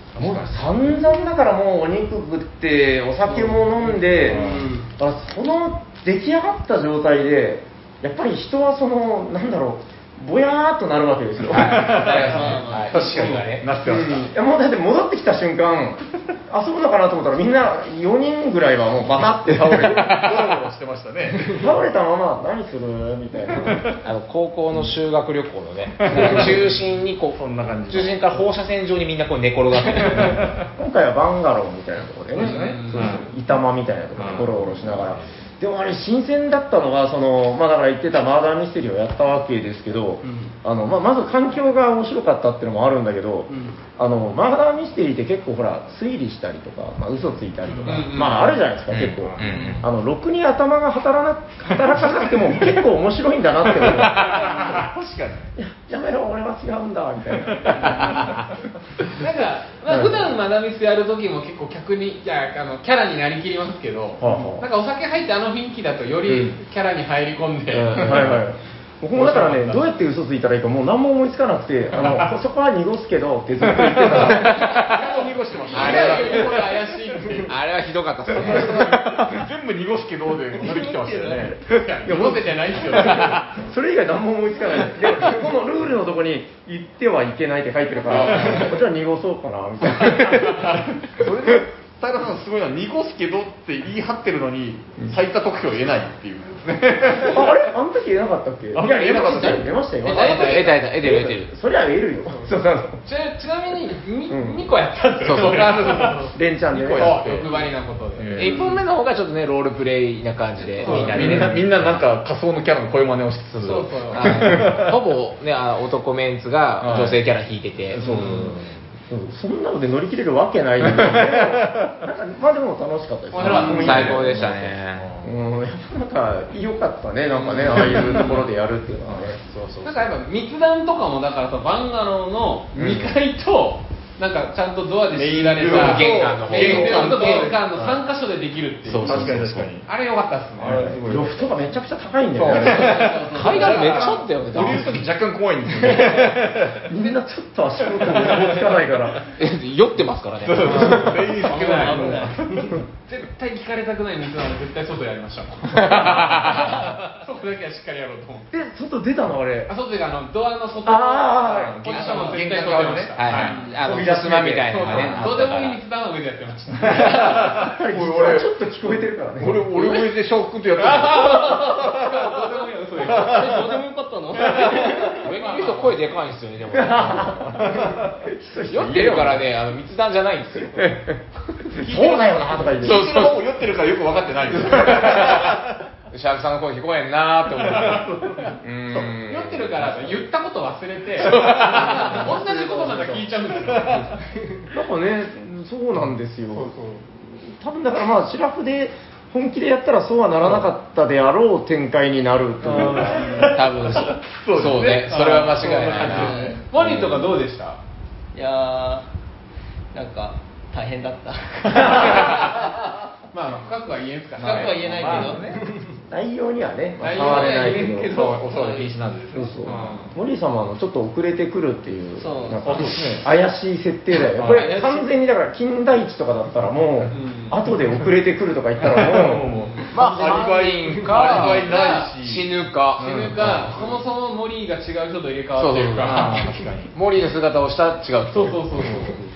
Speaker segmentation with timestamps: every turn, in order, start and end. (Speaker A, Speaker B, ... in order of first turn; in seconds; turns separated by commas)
Speaker A: 0.1-0.6, Speaker B: 0.2-12.1, Speaker C: 3.3-4.9, Speaker A: 4.3-4.7, Speaker D: 11.5-13.7, Speaker A: 11.5-14.3, Speaker C: 12.0-13.4, Speaker B: 13.8-20.2, Speaker A: 19.3-21.7, Speaker D: 19.8-20.4, Speaker B: 21.5-23.9, Speaker A: 23.7-24.0, Speaker D: 24.0-30.4, Speaker A: 26.0-28.5, Speaker B: 26.1-26.5, Speaker A: 29.9-30.7, Speaker B: 30.8-54.6, Speaker A: 32.4-33.3, Speaker E: 32.4-33.2, Speaker A: 34.2-35.3, Speaker C: 40.2-40.5, Speaker C: 43.5-43.8, Speaker C: 47.7-48.1, Speaker E: 47.9-48.6, Speaker D: 48.9-49.8, Speaker A: 49.0-49.8, Speaker A: 53.8-55.5, Speaker B: 55.6-58.3, Speaker A: 57.5-58.4, Speaker E: 59.1-68.1, Speaker B: 59.9-60.3, Speaker B: 64.2-64.7, Speaker D: 67.7-68.4, Speaker B: 68.0-74.7, Speaker E: 69.2-69.8, Speaker A: 73.9-77.2, Speaker D: 74.2-75.1, Speaker E: 74.7-77.5, Speaker D: 75.7-76.5, Speaker D: 77.5-79.3, Speaker A: 78.3-81.6, Speaker C: 80.5-81.5, Speaker E: 81.7-83.6, Speaker B: 82.0-91.2, Speaker A: 83.0-83.3, Speaker E: 88.1-88.7, Speaker A: 90.6-97.5, Speaker B: 97.2-103.0, Speaker A: 98.7-99.7, Speaker E: 100.0-100.8, Speaker D: 100.0-101.5, Speaker E: 102.3-106.3, Speaker B: 104.3-104.7, Speaker D: 105.2-106.0, Speaker A: 105.3-108.7, Speaker B: 106.3-107.2, Speaker E: 107.0-108.8, Speaker D: 108.3-111.8, Speaker E: 110.6-111.5, Speaker A: 110.8-115.0, Speaker E: 113.6-114.5, Speaker D: 114.2-118.0, Speaker A: 116.8-117.2, Speaker A: 117.9-118.8, Speaker E: 118.0-118.5, Speaker B: 119.1-124.7, Speaker A: 120.9-122.0, Speaker E: 123.3-124.1, Speaker D: 123.4-125.1, Speaker A: 123.4-125.3, Speaker B: 125.2-129.4, Speaker E: 127.3-128.4, Speaker A: 127.7-128.3, Speaker A: 129.1-129.4, Speaker D: 129.4-130.0, Speaker E: 129.8-139.3, Speaker A: 132.8-133.1, Speaker A: 135.1-138.0, Speaker D: 135.7-137.5, Speaker D: 138.9-139.7, Speaker A: 139.0-139.9, Speaker E: 139.9-140.9, Speaker A: 140.6-141.7, Speaker B: 140.7-143.1, Speaker A: 142.4-146.9, Speaker C: 142.5-144.2, Speaker D: 143.3-145.0, Speaker E: 143.4-144.2, Speaker B: 146.8-149.2, Speaker A: 147.9-148.6, Speaker D: 149.4-151.3, Speaker A: 150.4-152.7, Speaker E: 150.6-152.3, Speaker C: 150.8-152.8, Speaker E: 153.1-158.5, Speaker D: 155.7-156.8, Speaker B: 158.5-159.7, Speaker E: 159.7-163.6, Speaker B: 160.8-162.1, Speaker A: 161.6-163.6, Speaker D: 163.2-165.8, Speaker C: 163.4-163.8, Speaker B: 163.8-165.1, Speaker E: 164.7-167.4, Speaker A: 164.9-165.2, Speaker A: 166.8-168.5, Speaker B: 167.2-169.7, Speaker A: 169.4-172.4, Speaker E: 170.8-173.6, Speaker C: 173.0-175.3, Speaker A: 173.0-173.7, Speaker D: 174.5-177.4, Speaker E: 175.2-176.0, Speaker B: 176.7-179.5, Speaker A: 177.2-178.1, Speaker D: 178.7-180.9, Speaker B: 180.7-183.1, Speaker E: 181.8-182.8, Speaker A: 182.7-185.8, Speaker D: 182.8-183.4, Speaker D: 184.6-185.6, Speaker D: 186.1-188.1, Speaker A: 187.7-188.5, Speaker B: 188.6-190.2, Speaker E: 189.3-194.3, Speaker D: 191.2-192.3, Speaker B: 192.4-193.2, Speaker A: 193.6-194.1, Speaker B: 194.7-203.5, Speaker E: 196.6-197.0, Speaker A: 202.8-206.6, Speaker E: 203.0-203.5, Speaker C: 203.0-203.5, Speaker D: 203.3-206.6, Speaker E: 205.0-207.8, Speaker C: 206.1-206.6, Speaker C: 208.3-209.1, Speaker C: 209.9-212.7, Speaker E: 211.9-212.4, Speaker E: 213.3-215.4, Speaker A: 214.4-215.6, Speaker C: 214.4-216.0, Speaker B: 216.1-218.2, Speaker E: 217.0-218.9, Speaker A: 217.2-220.1, Speaker B: 219.3-229.5, Speaker E: 219.7-220.1, Speaker C: 222.2-222.9, Speaker A: 222.7-223.3, Speaker A: 224.3-224.9, Speaker E: 227.1-227.6, Speaker A: 228.8-233.9, Speaker E: 229.5-229.9, Speaker D: 229.9-233.7, Speaker E: 231.1-232.1, Speaker E: 233.0-236.5, Speaker D: 235.6-236.4, Speaker A: 236.0-236.9, Speaker D: 236.9-238.9, Speaker E: 238.3-239.2, Speaker A: 238.8-239.2